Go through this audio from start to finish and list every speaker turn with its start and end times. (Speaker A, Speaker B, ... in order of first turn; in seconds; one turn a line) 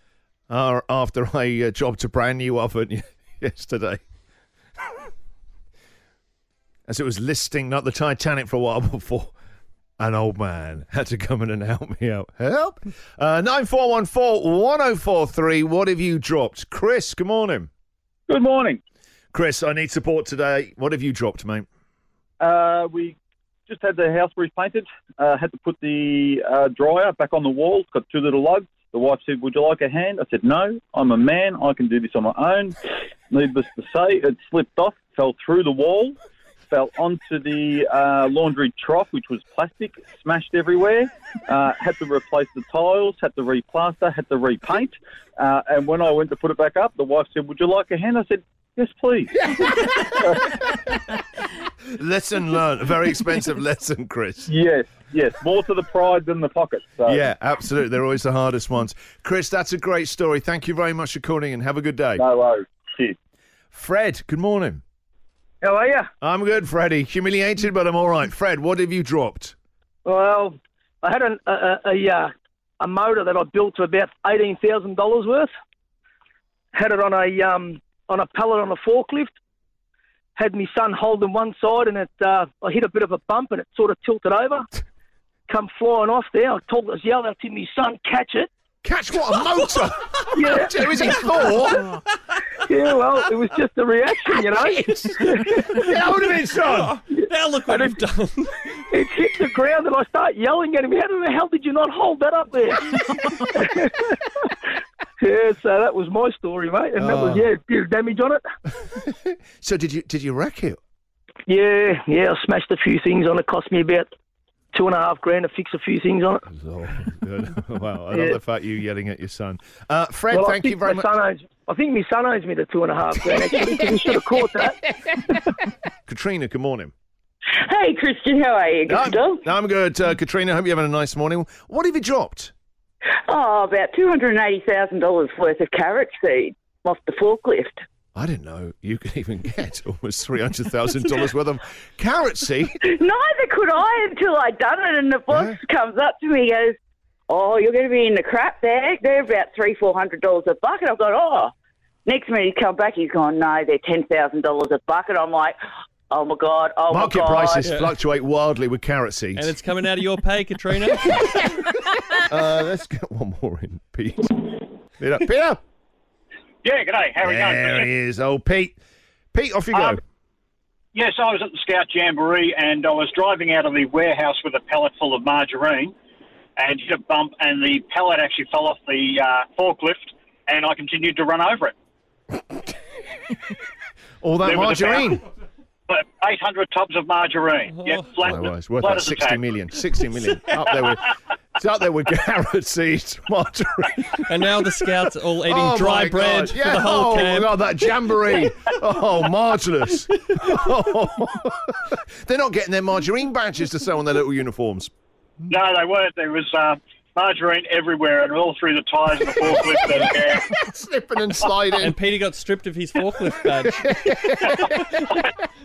Speaker A: 0.5-4.0
Speaker A: 6.9-9.3
Speaker A: 10.0-17.7
Speaker B: 18.3-18.8
Speaker A: 19.3-21.7
Speaker B: 22.4-32.8
Speaker B: 33.3-36.2
Speaker B: 36.7-50.5
Speaker A: 52.0-54.5
Speaker B: 54.5-57.2
Speaker A: 57.1-62.2
Speaker B: 62.2-63.2
Speaker A: 63.7-64.8
Speaker C: 65.7-66.0
Speaker A: 66.2-69.5
Speaker C: 70.1-72.3
Speaker C: 72.8-75.5
Speaker C: 76.8-79.3
Speaker C: 80.4-84.6
Speaker C: 85.5-88.5
Speaker A: 88.8-92.0
Speaker C: 90.4-90.7
Speaker C: 92.7-95.7
Speaker A: 94.8-97.0
Speaker D: 96.7-98.8
Speaker C: 97.1-97.9
Speaker C: 98.9-102.9
Speaker C: 103.6-103.9
Speaker C: 105.2-108.4
Speaker A: 107.0-107.5
Speaker A: 108.8-110.8
Speaker C: 111.5-114.1
Speaker C: 114.7-116.4
Speaker A: 116.5-121.1
Speaker C: 120.3-124.8
Speaker A: 126.1-126.9
Speaker E: 127.6-129.4
Speaker A: 128.9-132.5
Speaker E: 133.3-137.8
Speaker A: 138.2-142.8
Speaker E: 142.8-146.8
Speaker A: 145.3-145.6
Speaker E: 147.3-151.5
Speaker E: 152.1-155.6
Speaker E: 156.1-157.7
Speaker A: 156.9-159.6
Speaker D: 157.6-157.9
Speaker D: 159.3-161.4
Speaker A: 162.2-165.6
Speaker F: 166.6-167.9
Speaker A: 167.2-168.8
Speaker A: 169.3-170.0
Speaker F: 170.9-175.9
Speaker F: 176.6-181.7
Speaker A: 184.2-185.2
Speaker F: 184.4-185.1
Speaker F: 185.9-189.4
Speaker D: 187.7-188.1
Speaker A: 188.2-194.4
Speaker D: 194.3-197.6
Speaker A: 195.5-204.9
Speaker F: 205.5-210.4
Speaker A: 209.4-212.0
Speaker D: 211.8-215.1
Speaker A: 213.6-215.2
Speaker F: 214.4-214.7